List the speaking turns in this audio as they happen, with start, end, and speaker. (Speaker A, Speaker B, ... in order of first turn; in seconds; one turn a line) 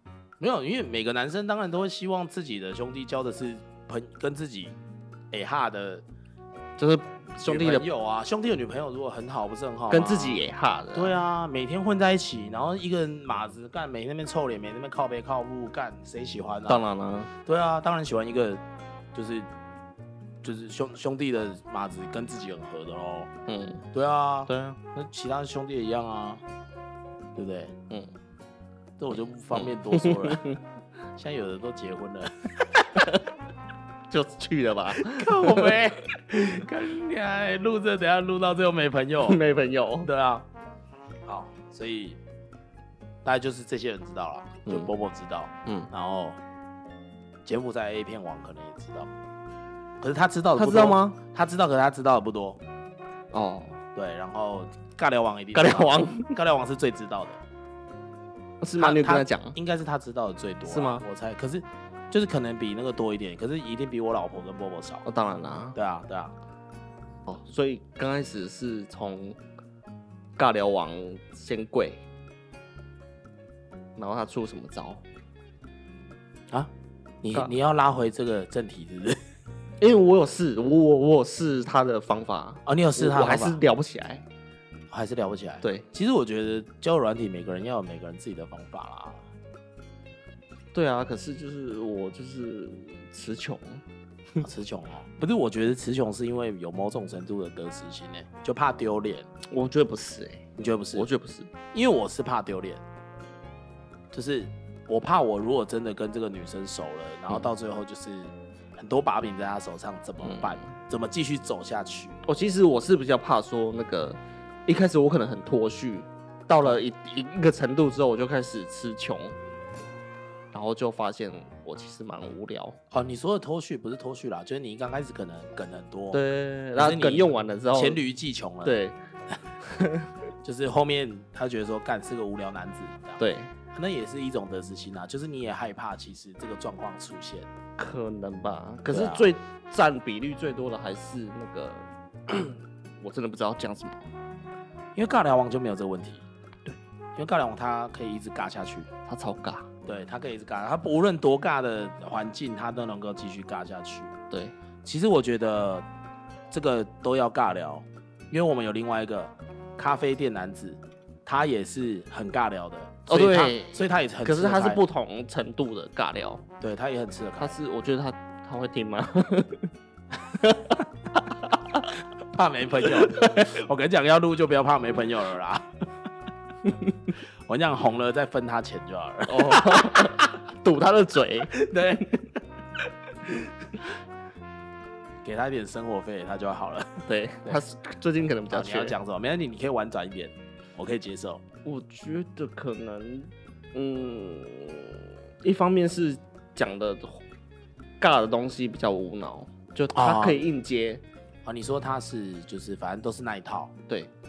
Speaker A: 0.4-4.8
Speaker A: 5.3-6.0
Speaker B: 6.8-7.8
Speaker A: 7.4-10.4
Speaker B: 9.9-11.1
Speaker A: 10.9-16.8
Speaker B: 16.7-17.3
Speaker A: 17.4-18.6
Speaker A: 19.1-19.5
Speaker A: 20.4-23.3
Speaker B: 23.5-23.8
Speaker A: 23.9-26.4
Speaker B: 24.5-24.8
Speaker A: 27.3-27.7
Speaker A: 29.0-30.4
Speaker B: 29.5-30.6
Speaker A: 31.1-32.8
Speaker B: 32.9-33.2
Speaker B: 34.1-35.6
Speaker A: 34.9-39.4
Speaker B: 39.2-40.1
Speaker A: 40.0-40.5
Speaker A: 41.2-42.2
Speaker A: 43.2-46.4
Speaker B: 44.6-44.9
Speaker A: 47.5-49.1
Speaker A: 50.0-52.6
Speaker B: 50.5-51.2
Speaker B: 53.3-53.8
Speaker A: 53.9-57.4
Speaker B: 55.5-56.3
Speaker B: 58.6-59.5
Speaker A: 58.8-65.0
Speaker B: 60.7-61.0
Speaker B: 65.0-65.8
Speaker A: 65.7-66.3
Speaker B: 67.3-69.4
Speaker B: 70.4-72.0
Speaker B: 74.0-75.0
Speaker A: 77.2-79.2
Speaker B: 79.8-84.2
Speaker A: 82.7-83.6
Speaker A: 84.9-89.2
Speaker B: 90.7-93.8
Speaker A: 94.4-99.3
Speaker B: 99.5-101.5
Speaker A: 100.5-101.1
Speaker A: 101.7-102.8
Speaker A: 104.1-112.2
Speaker B: 110.2-110.8
Speaker B: 112.2-119.4
Speaker B: 120.5-122.8
Speaker A: 122.9-126.2
Speaker B: 126.1-128.0
Speaker A: 126.8-128.7
Speaker B: 128.6-128.9
Speaker B: 129.6-130.1
Speaker A: 130.4-133.2
Speaker B: 133.2-133.5
Speaker A: 133.7-137.5
Speaker B: 137.8-144.0
Speaker A: 138.9-139.3
Speaker A: 144.9-146.2
Speaker A: 147.2-148.9
Speaker B: 149.1-149.7
Speaker A: 149.8-154.1
Speaker B: 154.3-154.5
Speaker A: 154.8-155.8
Speaker A: 156.5-164.8
Speaker B: 163.1-166.4
Speaker A: 166.6-167.6
Speaker B: 167.4-169.7
Speaker B: 170.3-171.9
Speaker A: 172.3-175.7
Speaker B: 172.8-173.5
Speaker B: 176.6-177.1
Speaker A: 177.4-180.3
Speaker B: 179.3-181.6
Speaker A: 181.5-182.2
Speaker A: 183.2-183.9
Speaker A: 185.2-187.6
Speaker B: 187.1-189.0
Speaker A: 188.5-191.4
Speaker B: 191.6-197.2
Speaker B: 198.0-201.0
Speaker A: 199.9-200.4
Speaker A: 201.4-203.7